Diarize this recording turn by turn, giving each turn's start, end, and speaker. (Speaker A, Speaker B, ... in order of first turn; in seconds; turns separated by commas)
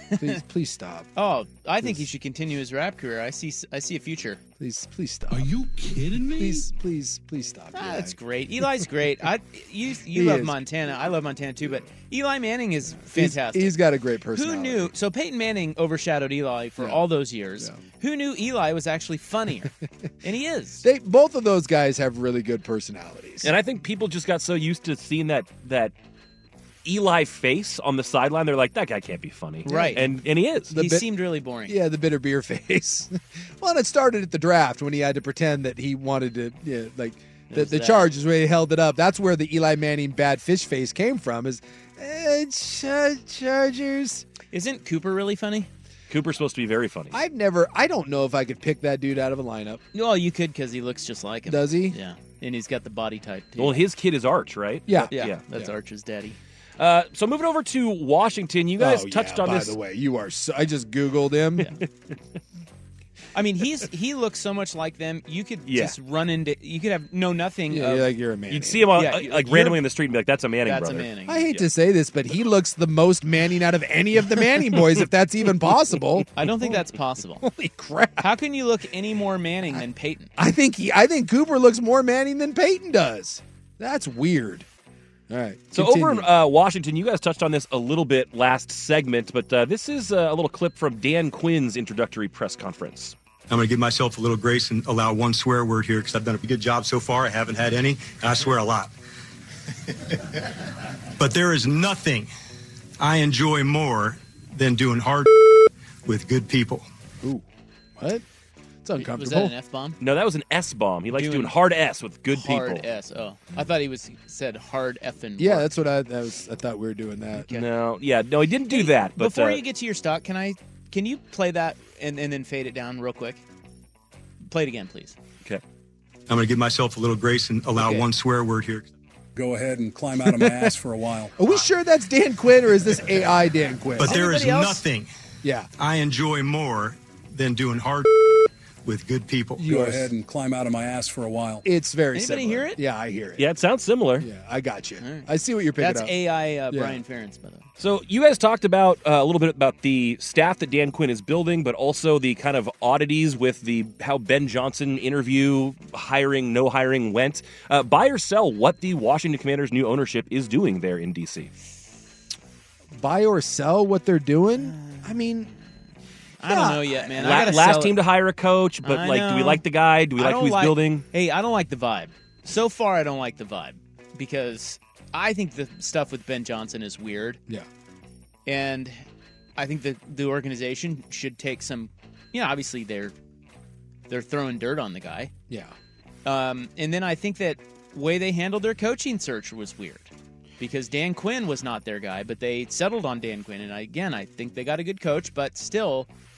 Speaker A: 0.2-1.1, Speaker B: 1.1-4.4, Speaker A: 4.6-5.5, Speaker A: 6.2-8.1, Speaker B: 7.7-13.8, Speaker A: 10.1-10.6, Speaker A: 13.0-14.9, Speaker B: 14.3-20.8, Speaker A: 20.8-23.5, Speaker C: 23.4-25.9, Speaker C: 26.8-30.7, Speaker B: 29.6-30.1, Speaker A: 29.6-30.0, Speaker B: 30.7-31.8, Speaker A: 30.7-31.1, Speaker A: 31.6-44.2, Speaker B: 37.5-38.1, Speaker B: 44.5-45.7, Speaker C: 46.1-47.2, Speaker A: 47.1-49.8, Speaker B: 49.9-53.8, Speaker A: 51.5-52.0, Speaker C: 53.6-55.4, Speaker A: 54.9-55.7, Speaker B: 55.1-56.4, Speaker C: 56.8-59.8, Speaker A: 58.8-61.7, Speaker B: 63.3-68.1, Speaker C: 65.7-65.9, Speaker A: 67.7-69.1, Speaker C: 68.5-71.1, Speaker B: 69.0-69.7, Speaker B: 70.6-71.6, Speaker A: 71.3-76.7, Speaker B: 76.3-77.5, Speaker A: 77.4-78.3, Speaker B: 78.2-80.3, Speaker A: 80.4-84.7, Speaker A: 85.3-86.3, Speaker C: 85.7-93.1, Speaker D: 93.5-98.9, Speaker D: 101.2-102.3, Speaker D: 103.0-105.3, Speaker D: 106.0-106.9, Speaker A: 108.0-108.2, Speaker A: 108.8-109.5, Speaker B: 109.0-110.0, Speaker C: 110.0-112.9, Speaker B: 111.1-111.5, Speaker B: 112.3-115.7, Speaker A: 115.4-117.5, Speaker C: 117.5-119.6, Speaker B: 118.7-123.4, Speaker B: 124.4-125.2, Speaker D: 126.3-128.9, Speaker B: 127.8-128.0, Speaker E: 129.4-131.6, Speaker A: 130.3-130.7, Speaker A: 131.4-134.2, Speaker D: 134.0-135.1, Speaker B: 134.0-134.8, Speaker A: 135.4-135.7, Speaker D: 135.8-138.1, Speaker D: 138.8-139.6, Speaker A: 139.6-140.1, Speaker E: 139.6-141.6, Speaker A: 141.6-143.5, Speaker B: 142.1-142.8, Speaker C: 143.4-144.3, Speaker A: 144.2-146.1, Speaker B: 145.0-147.7, Speaker A: 146.7-147.0, Speaker C: 147.8-161.5, Speaker A: 162.9-165.5, Speaker B: 164.6-165.1, Speaker B: 166.4-168.0, Speaker A: 166.4-167.1, Speaker C: 167.2-171.0, Speaker B: 168.8-169.6, Speaker B: 170.2-177.4, Speaker B: 178.4-179.0, Speaker B: 179.6-183.1, Speaker B: 184.1-185.3, Speaker A: 185.5-185.7, Speaker B: 186.2-196.1